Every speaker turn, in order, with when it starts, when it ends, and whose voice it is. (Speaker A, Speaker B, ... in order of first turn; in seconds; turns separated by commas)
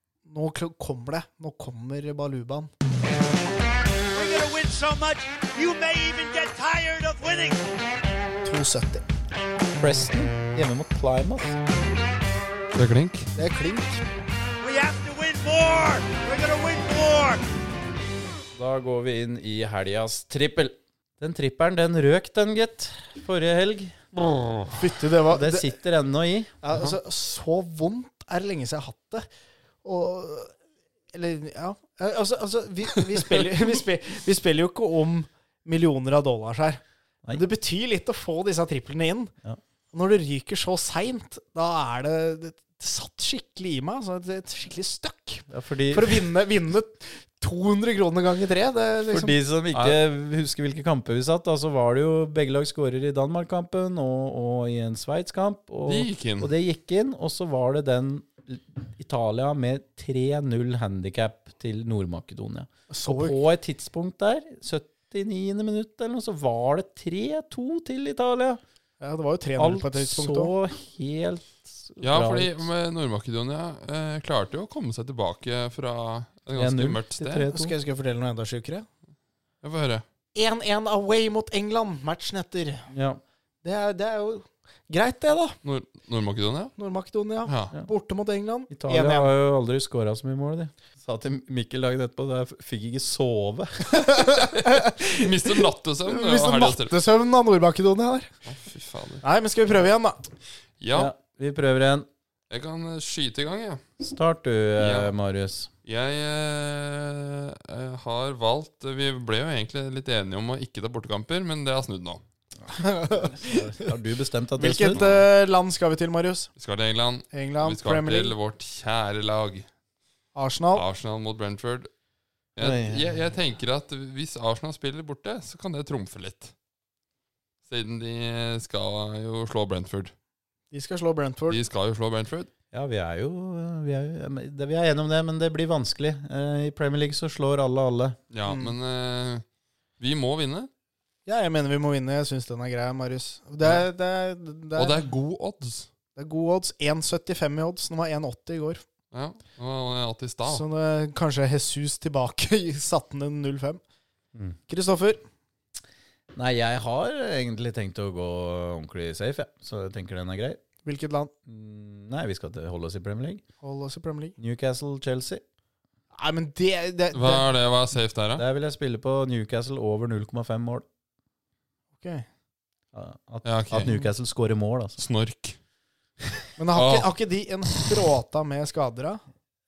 Speaker A: 0.2-2.7, Speaker B: 4.1-7.7, Speaker A: 8.4-9.0, Speaker C: 9.8-11.6, Speaker D: 12.7-13.3, Speaker A: 13.3-14.0, Speaker B: 14.6-17.4, Speaker C: 18.5-24.0, Speaker A: 24.7-25.7, Speaker C: 25.3-26.5, Speaker A: 26.6-29.2, Speaker A: 29.8-30.5, Speaker A: 31.1-39.3, Speaker A: 39.9-49.3, Speaker C: 45.5-46.2, Speaker C: 49.1-68.6, Speaker D: 49.7-50.0, Speaker D: 55.9-56.5, Speaker A: 62.9-63.4, Speaker A: 69.0-70.5, Speaker C: 69.6-72.7, Speaker D: 72.0-77.5, Speaker C: 76.6-77.7, Speaker A: 77.5-78.8, Speaker D: 79.6-80.0, Speaker A: 80.3-82.9, Speaker C: 82.9-83.2, Speaker A: 83.6-85.6, Speaker D: 85.6-86.7, Speaker A: 86.8-89.3, Speaker D: 87.4-87.7, Speaker C: 88.7-94.2, Speaker A: 93.9-98.3, Speaker D: 95.1-96.9, Speaker D: 98.5-99.2, Speaker A: 99.2-100.3, Speaker D: 100.8-101.1, Speaker C: 100.9-102.1, Speaker D: 102.5-103.8, Speaker C: 104.0-105.7, Speaker D: 104.8-105.1, Speaker D: 105.8-112.2, Speaker A: 112.7-113.9, Speaker C: 113.1-115.1, Speaker A: 114.6-116.5, Speaker D: 114.9-115.2, Speaker D: 116.6-119.7, Speaker A: 117.3-118.3, Speaker A: 120.3-120.8, Speaker D: 120.7-121.9, Speaker D: 122.5-126.5, Speaker C: 122.6-123.1, Speaker D: 127.7-130.1, Speaker A: 130.7-131.6, Speaker D: 131.5-132.5, Speaker C: 132.7-138.2, Speaker D: 138.3-139.4, Speaker A: 138.5-138.7, Speaker D: 140.0-140.7, Speaker A: 141.2-145.0, Speaker D: 144.8-145.9, Speaker A: 146.2-148.8, Speaker D: 149.1-150.6, Speaker A: 150.4-153.8, Speaker A: 154.7-155.2, Speaker C: 156.3-160.6, Speaker A: 160.8-161.3, Speaker C: 161.5-163.4, Speaker A: 163.6-164.3, Speaker C: 164.4-165.4, Speaker A: 166.1-167.4, Speaker D: 167.1-168.4, Speaker C: 168.4-170.8, Speaker A: 172.0-172.3, Speaker C: 172.9-175.0, Speaker D: 173.4-174.0, Speaker D: 175.0-175.6, Speaker A: 176.6-179.2, Speaker D: 176.7-177.1